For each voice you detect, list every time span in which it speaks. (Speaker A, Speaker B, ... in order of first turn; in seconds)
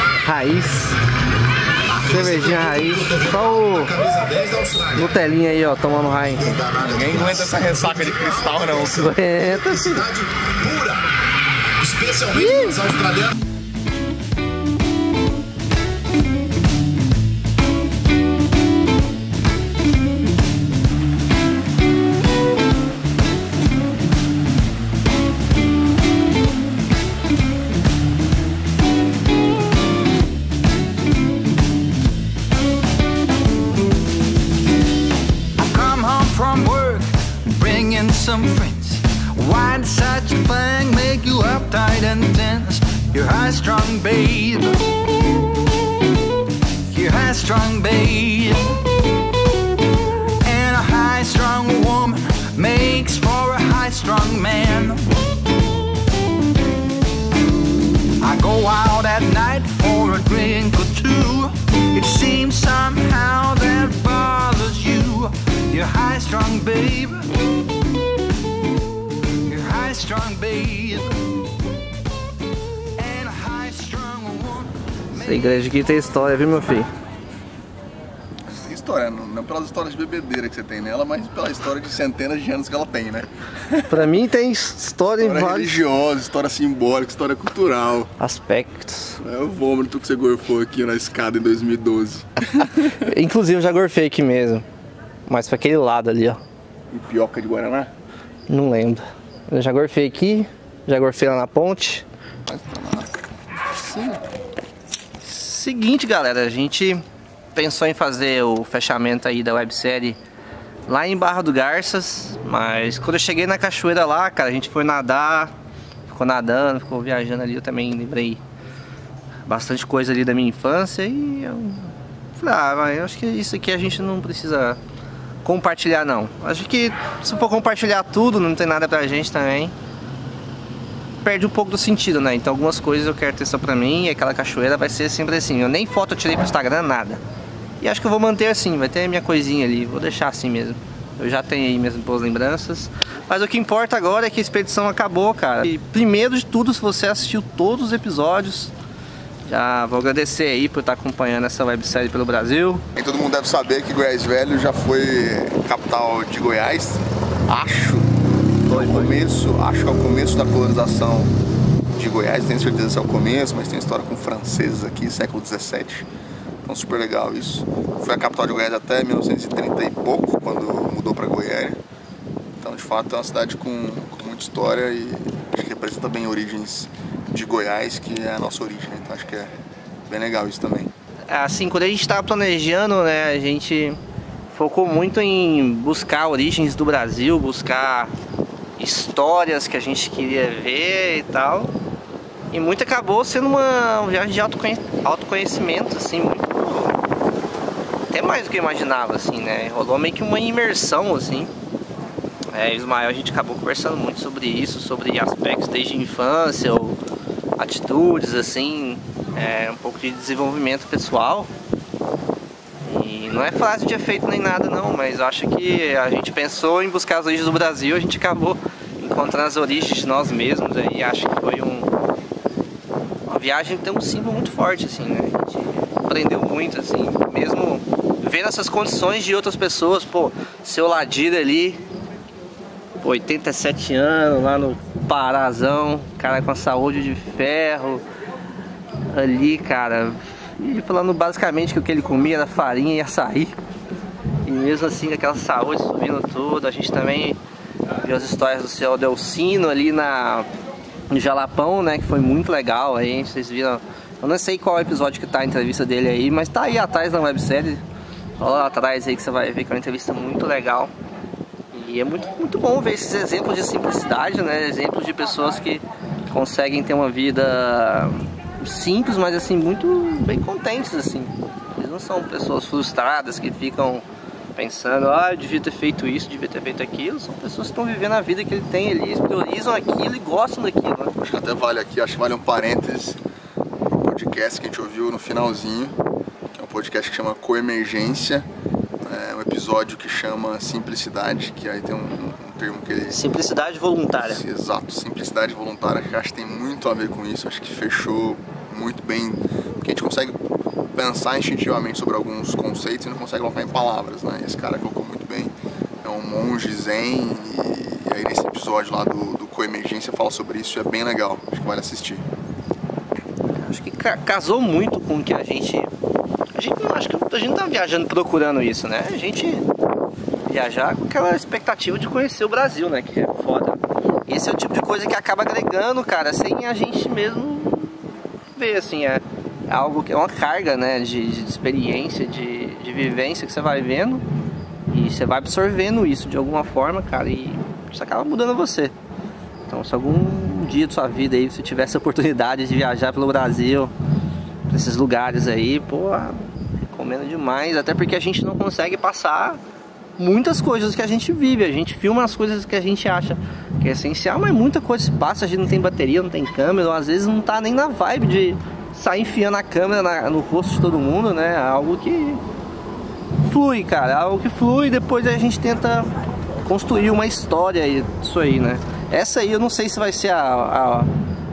Speaker A: 0.2-1.0, 1.9-4.2, 4.8-6.9, 8.5-10.2, 12.1-13.2, 75.1-76.9, 83.9-85.8, 88.2-89.2, 92.9-94.7, 95.3-96.4, 98.5-102.0, 105.2-110.2, 110.9-115.5, 116.1-118.4, 119.5-124.8, 125.4-129.7, 131.2-137.2, 137.8-148.7, 149.4-152.8, 158.7-159.2, 181.3-184.0, 184.5-188.1, 188.8-191.7, 192.5-197.0, 198.1-201.5, 202.5-207.0, 207.6-211.5, 212.8-221.9, 223.3-231.8, 233.0-238.0, 239.1-243.6, 244.4-247.4, 248.0-250.5, 251.1-257.8, 258.4-260.9, 261.7-281.1, 293.1-294.4, 313.6-315.9, 316.6-319.7, 320.5-334.2, 334.9-338.9, 339.7-343.9, 344.7-349.6, 350.2-362.4, 363.4-366.1, 366.6-371.1
Speaker B: 6.8-8.8, 78.5-84.1, 85.2-88.1, 89.2-93.1, 96.9-97.9, 102.5-103.1, 103.7-104.2, 153.0-158.1, 158.7-161.3, 161.9-166.1, 166.6-171.8, 172.6-179.5, 180.1-180.9, 281.2-283.2, 283.8-286.0, 286.5-288.5, 289.0-293.2, 294.2-300.4, 300.9-312.2
Speaker C: 35.6-44.9, 46.9-48.9, 50.4-55.1, 58.2-67.3, 69.5-71.2, 73.0-74.8